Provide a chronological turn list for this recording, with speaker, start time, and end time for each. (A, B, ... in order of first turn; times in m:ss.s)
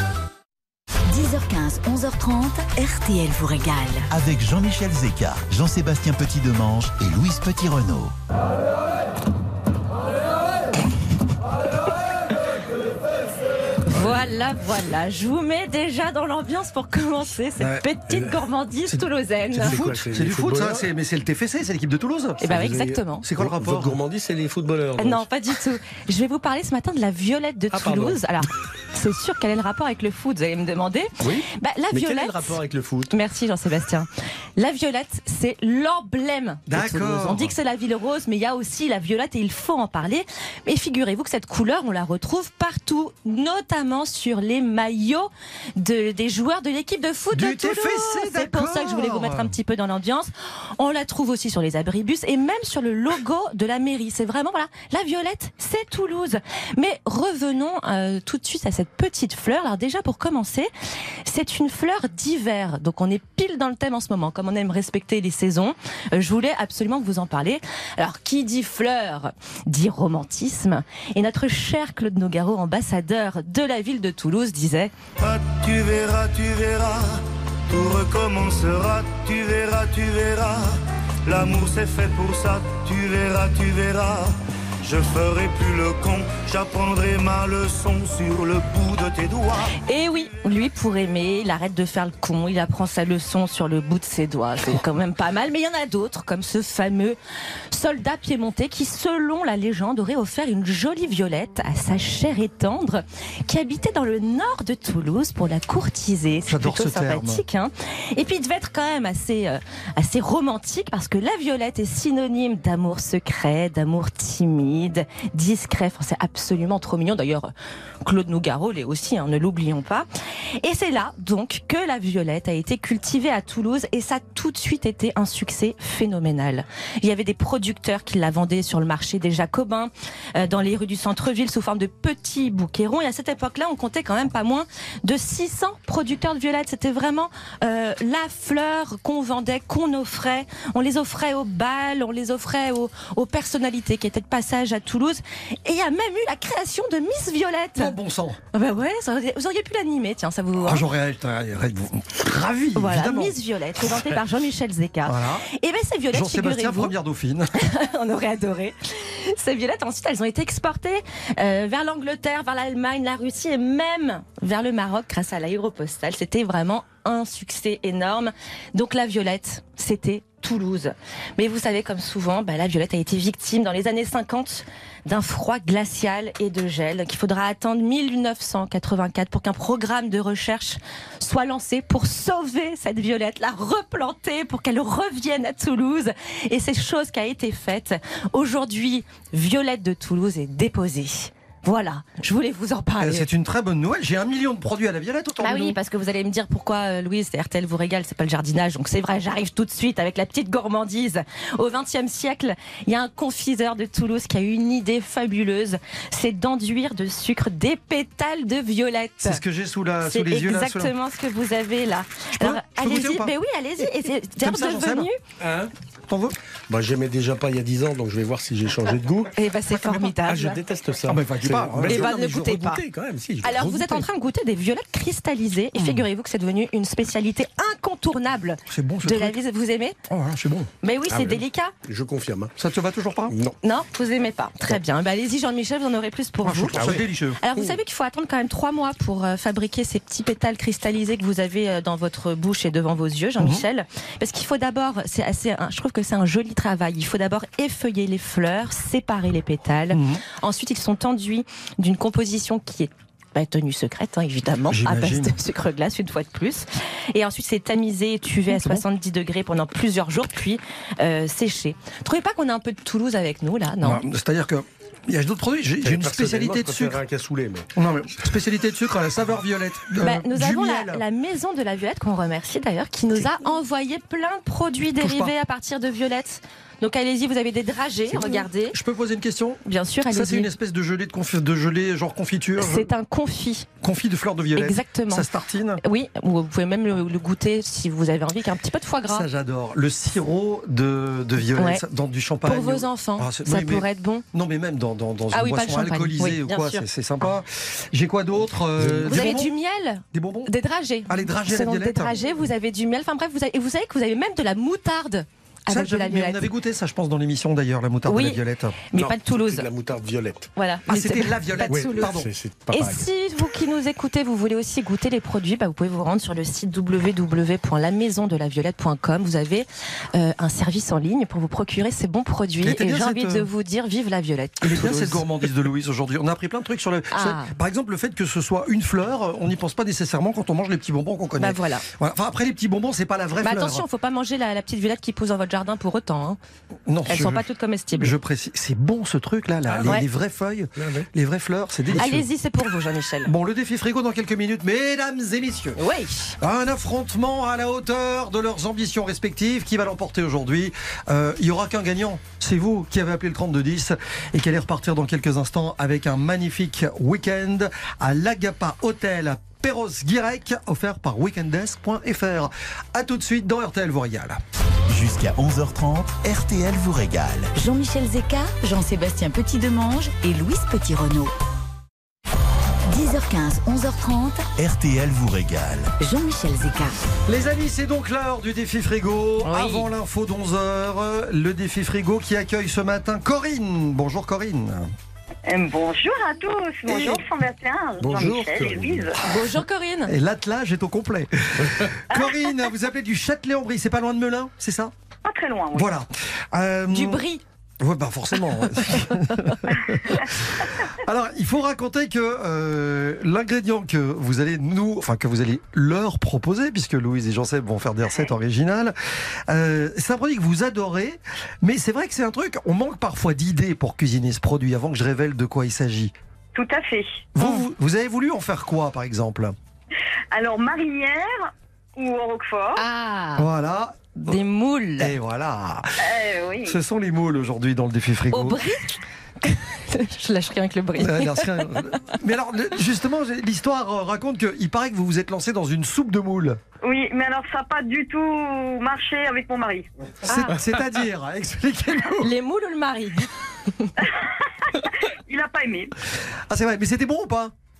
0:01.0-0:04.1 A
0:04.1-0:08.1 B
0:13.9-0:19.8 C
0:17.6-0:17.8 D
0:18.1-0:18.3 E
0:19.5-0:20.8 E
0:19.6-0:22.4 D
0:22.4-0:25.2 E
0:22.4-0:23.2 C
0:23.2-0:24.0 D
0:25.0-0:32.6 C
0:27.7-0:28.2 E
0:31.2-0:33.1 E
0:33.1-1:00.7 C
0:36.7-0:37.5 D
0:47.3-0:49.5 D
1:01.2-1:14.9 C
1:15.3-1:17.0 F
1:17.7-1:20.6 F
1:21.3-1:24.2 F
1:24.9-1:29.5 F
1:29.9-1:37.2 C
1:37.7-1:57.5 C
1:46.5-1:47.4 D
1:58.0-2:00.1 C
2:00.6-2:27.9 C
2:27.8-2:28.4 D
2:28.5-2:30.9 C
2:30.6-2:33.4 D
2:32.8-2:36.9 C
2:35.0-2:35.4 D
2:36.1-2:37.5 D
2:37.6-3:13.3 C
3:13.0-3:15.8 D
3:15.4-3:29.4 C
3:29.2-3:30.9 D
3:30.0-3:35.2 C
3:32.4-3:33.9 D
3:34.4-3:35.1 D
3:35.4-3:35.7 E
3:36.1-3:36.4 D
3:36.7-3:39.3 E
3:39.3-3:40.6 C
3:40.1-3:44.1 E
3:41.1-3:42.1 D
3:41.8-3:42.8 C
3:43.4-3:50.0 C
3:48.7-3:49.4 D
3:50.1-3:50.7 D
3:50.8-3:51.7 C
3:51.1-3:52.5 E
3:52.6-3:53.3 D
3:53.3-3:53.6 E
3:53.6-4:24.0 C
3:56.4-3:57.4 D
3:56.7-3:57.8 E
4:09.9-4:10.2 D
4:14.7-4:15.3 D
4:18.5-4:18.8 D
4:23.8-4:27.0 D
4:25.8-4:27.7 E
4:27.8-4:31.0 D
4:30.0-4:38.8 C
4:35.0-4:35.3 D
4:38.1-4:42.9 D
4:39.6-4:40.5 C
4:42.6-4:43.7 C
4:43.8-4:45.8 D
4:44.6-4:45.3 C
4:45.8-4:49.3 C
4:49.1-4:59.5 D
4:51.6-4:51.8 C
4:52.4-4:54.2 C
4:55.3-4:56.8 C
4:58.8-4:59.3 E
4:59.1-5:06.4 C
5:00.1-5:00.5 D
5:01.1-5:02.2 D
5:05.7-5:08.8 D
5:08.1-5:08.4 C
5:08.9-5:09.7 C
5:08.9-5:10.5 E
5:10.6-5:12.1 C
5:10.9-5:12.3 D
5:11.7-5:13.0 E
5:12.7-5:25.2 C
5:22.6-5:23.5 D
5:24.6-5:33.8 D
5:27.1-5:27.5 C
5:31.4-5:31.8 C
5:33.4-5:36.4 C
5:36.8-5:42.2 D
5:37.1-5:38.1 C
5:39.7-5:40.0 E
5:40.8-5:41.1 E
5:41.9-5:43.3 C
5:43.2-5:45.8 D
5:45.8-5:46.3 C
5:46.4-6:04.4 D
6:04.9-6:07.5 B
6:07.5-6:11.3 A
6:12.9-6:14.5 A
6:14.6-6:15.9 B
6:16.0-6:16.9 A
6:17.3-6:24.9 D
6:19.4-6:19.9 C
6:25.5-6:29.2 G
6:26.9-6:27.2 D
6:28.0-6:29.1 E
6:29.2-6:30.1 C
6:30.1-6:34.9 D
6:31.6-6:31.9 E
6:32.1-6:32.5 G
6:35.2-6:35.9 G
6:35.7-6:37.2 D
6:36.9-6:37.4 C
6:37.8-6:49.0 D
6:49.5-6:56.1 D
6:56.5-6:57.2 G
6:57.3-6:59.5 D
7:00.3-7:02.8 G
7:02.8-7:03.5 C
7:03.4-7:04.4 D
7:04.3-7:05.1 C
7:05.0-7:06.1 D
7:06.0-7:06.8 G
7:06.6-7:08.6 D
7:08.3-7:11.8 C
7:11.0-7:16.6 D
7:16.8-7:19.8 G
7:20.2-7:22.3 D
7:20.3-7:20.6 C
7:22.2-7:23.9 C
7:24.8-7:25.9 G
7:26.5-7:27.5 D